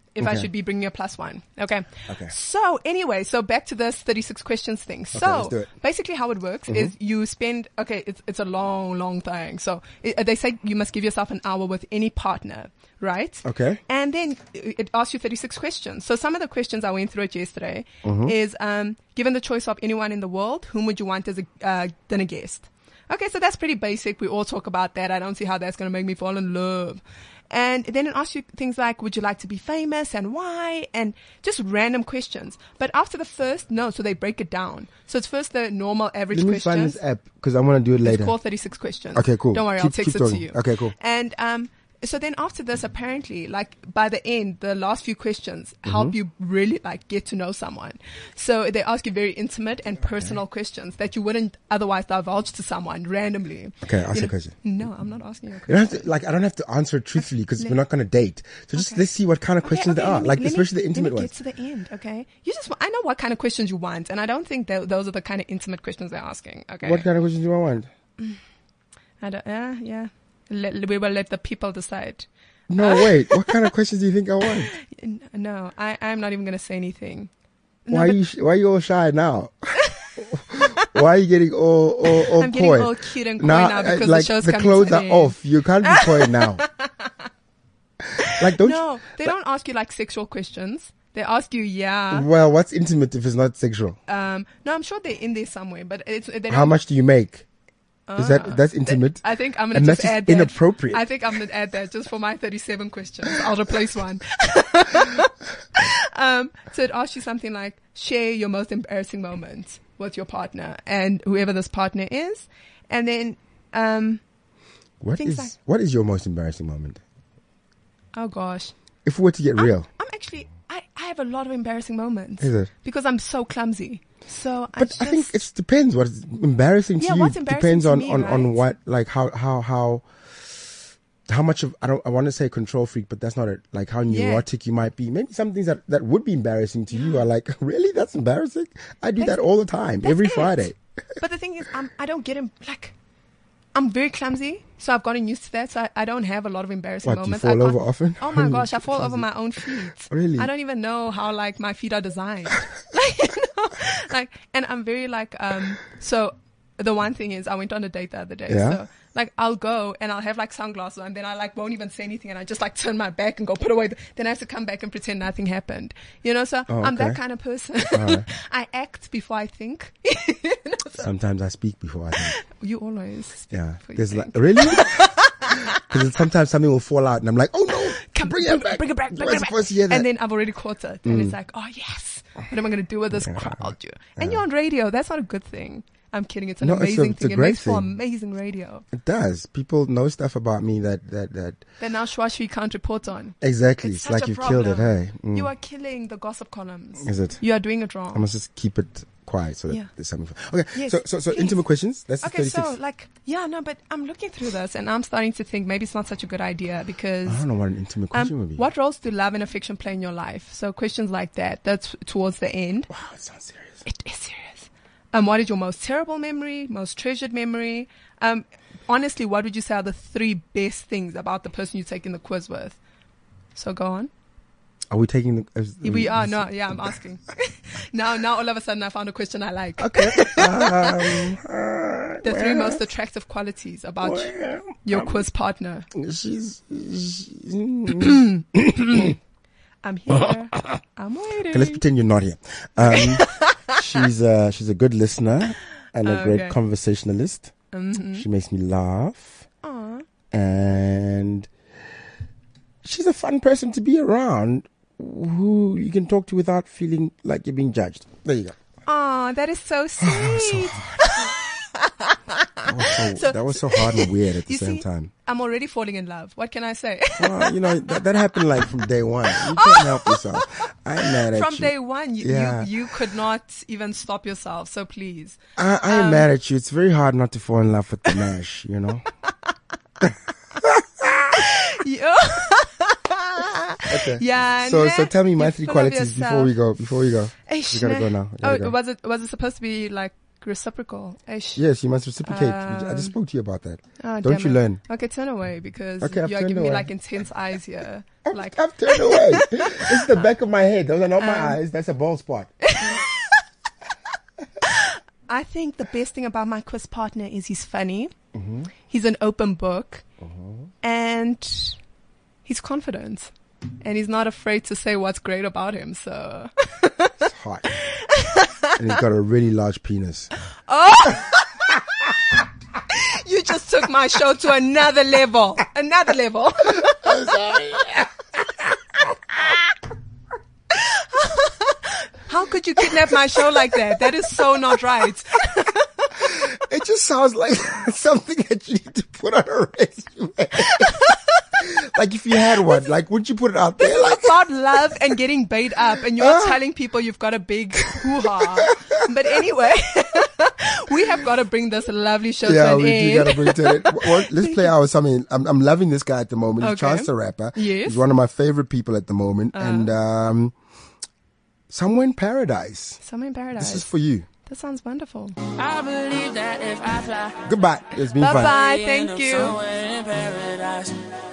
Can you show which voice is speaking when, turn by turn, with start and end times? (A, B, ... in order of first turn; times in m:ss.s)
0:00.2-0:37.0 A
0:00.2-0:00.5 B
0:02.1-0:02.3 B
0:05.1-0:05.7 B
0:06.7-0:06.9 B
0:13.4-0:13.8 B
0:18.0-0:18.3 B
0:36.3-0:38.4 B
0:38.0-0:56.1 A
0:39.1-0:40.9 B
0:45.9-0:46.2 B
0:50.1-0:50.4 B
0:53.8-0:54.6 B
0:55.7-1:01.3 B
0:58.7-0:59.1 A
0:59.6-1:07.0 A
1:06.8-1:07.9 B
1:09.2-1:13.7 A
1:12.7-1:14.7 B
1:14.5-1:17.3 A
1:17.9-1:18.2 A
1:17.9-1:26.6 B
1:22.2-1:27.1 A
1:28.2-1:29.3 B
1:28.2-1:32.3 A
1:32.1-1:34.0 B
1:34.1-1:36.8 A
1:36.5-1:37.4 B
1:38.1-1:54.2 A
1:38.2-1:41.0 B
1:55.0-1:57.0 B
1:55.2-1:55.5 A
1:58.1-1:58.7 A
1:59.0-1:59.9 B
1:59.6-2:05.4 A
2:02.4-2:02.7 B
2:04.8-2:10.0 B
2:07.0-2:08.7 A
2:11.3-2:20.8 B
2:14.1-2:14.4 A
2:16.9-2:17.2 A
2:19.2-2:19.5 A
2:20.0-2:20.6 A
2:21.2-2:23.0 A
2:23.7-2:51.1 A
2:27.0-2:29.3 B
2:30.1-2:30.5 B
2:38.5-2:38.8 B
2:46.7-2:47.2 B
2:47.9-2:48.3 B
2:51.0-2:52.4 B
2:52.2-2:55.8 A
2:53.5-3:00.1 B
2:57.7-3:08.8 A
3:01.0-3:01.4 B
3:03.1-3:04.4 B
3:06.6-3:07.9 B
3:08.9-3:11.6 B
3:11.8-3:18.2 A
3:13.4-3:15.5 B
3:17.0-3:17.4 B
3:18.1-3:22.8 B
3:20.8-3:21.6 A
3:22.2-3:27.4 A
3:27.2-3:28.6 B
3:28.1-3:32.9 A
3:32.9-3:33.8 B
3:33.8-3:42.8 A
3:43.6-3:44.1 A
3:44.9-3:47.0 B
3:45.8-3:51.2 A
3:49.8-3:52.8 B
3:52.2-3:55.9 A
3:54.0-3:55.2 B
3:55.9-3:59.2 B
3:58.0-3:58.4 A
3:59.8-4:01.8 A
4:00.1-4:00.8 B
4:01.5-4:07.5 B
4:02.9-4:03.8 A
4:06.0-4:06.6 A
4:07.7-4:08.3 A
4:08.1-4:09.4 B
4:09.6-4:10.1 A
4:10.3-4:11.5 B
4:12.8-4:18.6 B
4:18.9-4:28.0 A
4:20.0-4:21.1 B
4:22.7-4:25.1 B
4:27.2-4:32.7 B
4:29.3-4:30.5 A
4:31.0-4:36.3 A
4:35.6-4:39.0 B
4:40.0-4:41.5 B
4:41.3-4:46.6 A
4:43.9-4:48.8 B
4:47.5-4:51.6 A
4:51.6-4:54.8 B
4:52.2-4:53.2 A
4:54.0-5:00.1 A
4:56.0-4:56.9 B
4:58.2-5:03.0 B
5:01.2-5:01.6 A
5:02.6-5:03.4 A
5:04.6-5:08.1 A
5:08.3-5:08.7 B
5:08.9-5:10.0 A
5:10.2-5:10.7 B
5:10.8-5:11.8 A
5:12.5-5:17.3 A
5:17.2-5:17.8 B
5:17.8-5:18.9 A
5:18.8-5:20.3 B
5:20.7-5:21.8 A
5:22.9-5:27.2 A
5:26.7-5:29.6 B
5:30.7-5:36.4 A
5:32.8-5:34.6 B
5:36.2-5:44.5 B
5:40.8-5:41.2 A
5:43.8-5:54.7 A
5:46.0-5:46.6 B
5:47.9-5:49.0 B
5:52.4-6:00.5 B
5:56.6-5:58.0 A
5:59.5-5:59.9 A
6:01.7-6:03.0 B
6:03.0-6:03.9 A
6:03.6-6:04.3 B
6:04.5-6:05.4 A
6:05.6-6:07.4 C
6:07.4-6:08.6 B
6:08.2-6:09.6 A
6:08.2-6:11.1 C